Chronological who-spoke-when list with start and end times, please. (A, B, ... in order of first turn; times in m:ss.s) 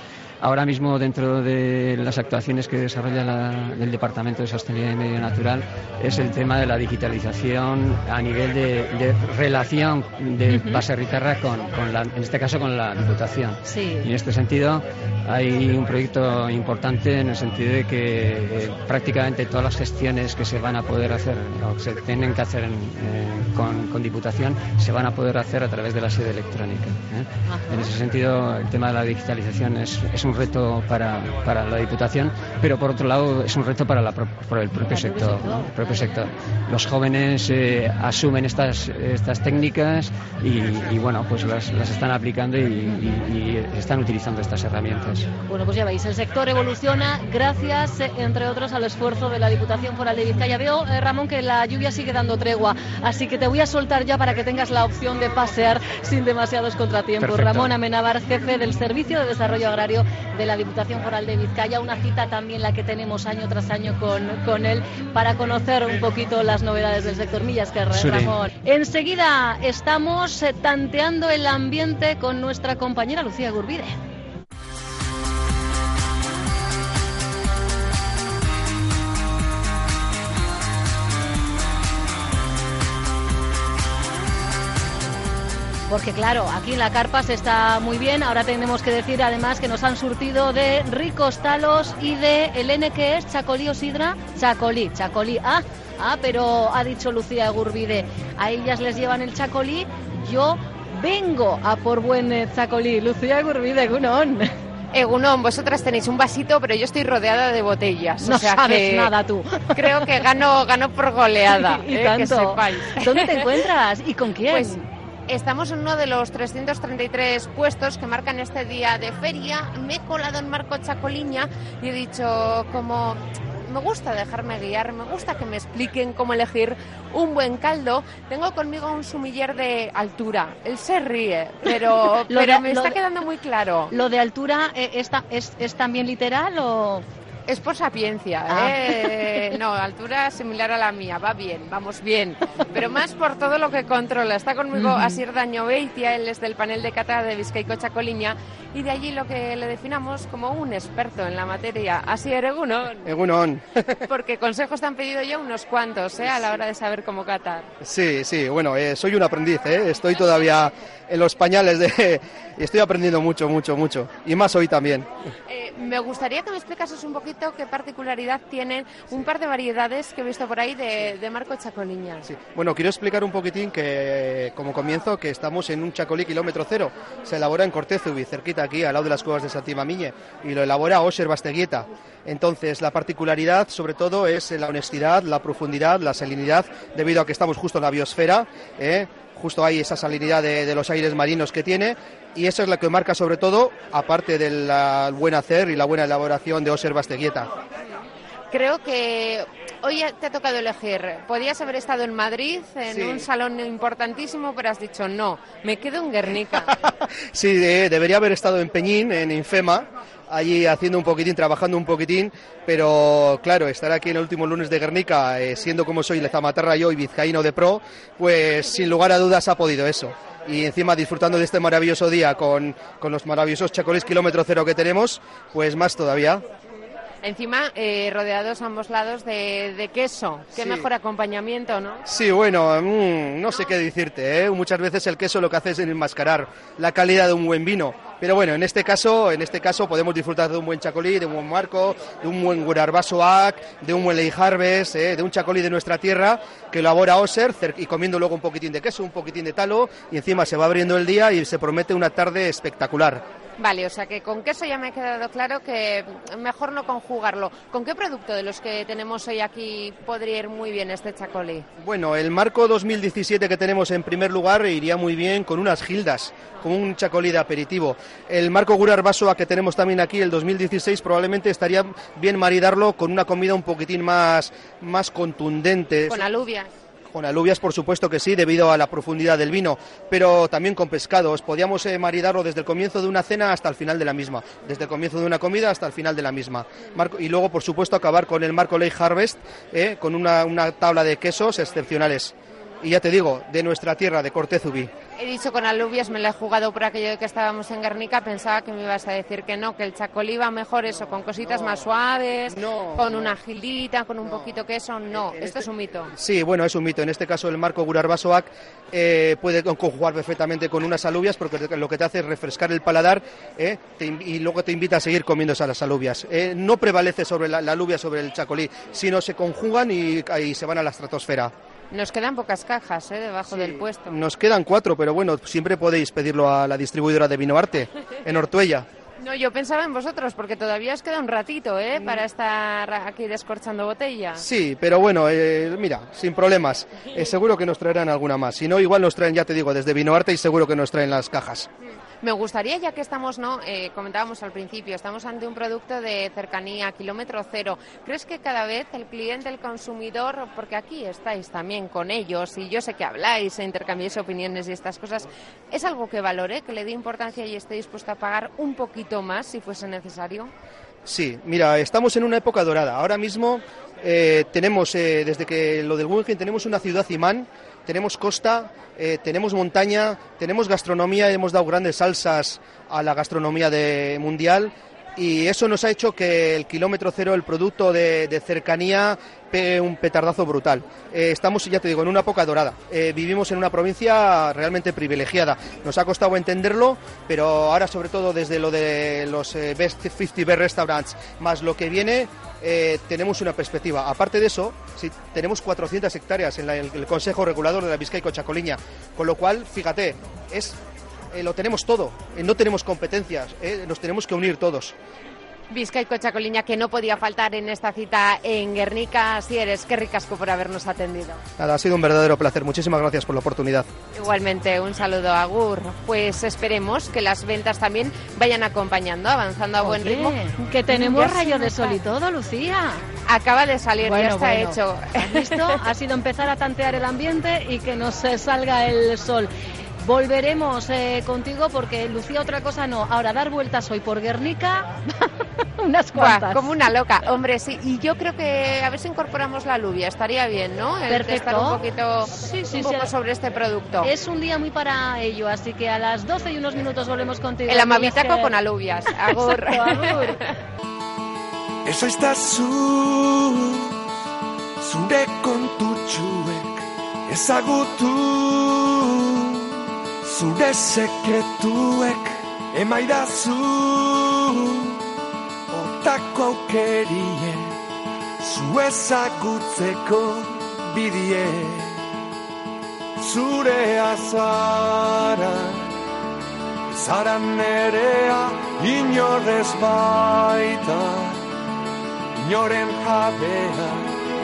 0:00.4-0:45.3 A
0:10.5-0:10.8 B
0:13.6-0:14.1 B
0:27.5-0:27.9 B
0:34.9-0:36.2 B
0:42.9-0:43.1 B
0:45.5-1:14.0 B
0:57.2-0:57.7 A
1:07.9-1:08.3 A
1:25.9-1:44.5 B
1:44.9-1:49.1 C
1:48.2-1:50.2 B
1:49.8-1:53.5 C
1:51.5-1:54.8 B
1:54.5-2:13.9 C
2:12.1-2:13.0 B
2:13.9-2:17.0 B
2:17.5-2:33.1 C
2:18.5-2:19.6 B
2:24.7-2:25.2 B
2:33.1-2:34.0 D
2:34.1-2:37.7 C
2:37.8-2:45.1 D
2:45.5-2:52.3 C
2:52.3-3:17.5 D
3:18.5-3:26.7 C
3:22.9-3:23.3 D
3:27.3-3:46.4 D
3:47.2-3:52.0 C
3:50.6-3:50.8 D
3:52.1-4:13.2 D
4:13.6-4:21.7 C
4:21.8-4:36.2 D
4:36.1-4:36.7 C
4:37.1-4:54.9 D
4:55.2-5:06.1 C
5:02.5-5:03.4 D
5:05.3-5:05.6 D
5:06.2-5:21.5 D
5:21.9-5:24.2 C
5:23.5-5:28.9 D
5:29.2-5:34.5 C
5:34.4-5:41.7 D
5:42.2-6:00.5 C
6:01.1-6:40.8 D
6:41.3-6:45.0 D
6:45.7-6:51.4 C
6:51.6-6:53.9 D
6:54.1-7:02.0 C
6:59.8-7:03.1 B
7:03.3-7:05.8 C
7:04.0-7:16.8 B
7:16.1-7:24.1 C
7:21.1-7:23.1 B
7:24.0-7:28.5 B
7:27.7-7:30.5 C
7:29.1-7:30.4 B
7:31.8-7:34.0 E
7:34.8-7:45.1 E
7:45.7-7:47.8 E
7:48.4-7:52.0 E
7:53.2-7:55.9 E
7:56.9-8:01.5 E
8:02.4-8:04.1 E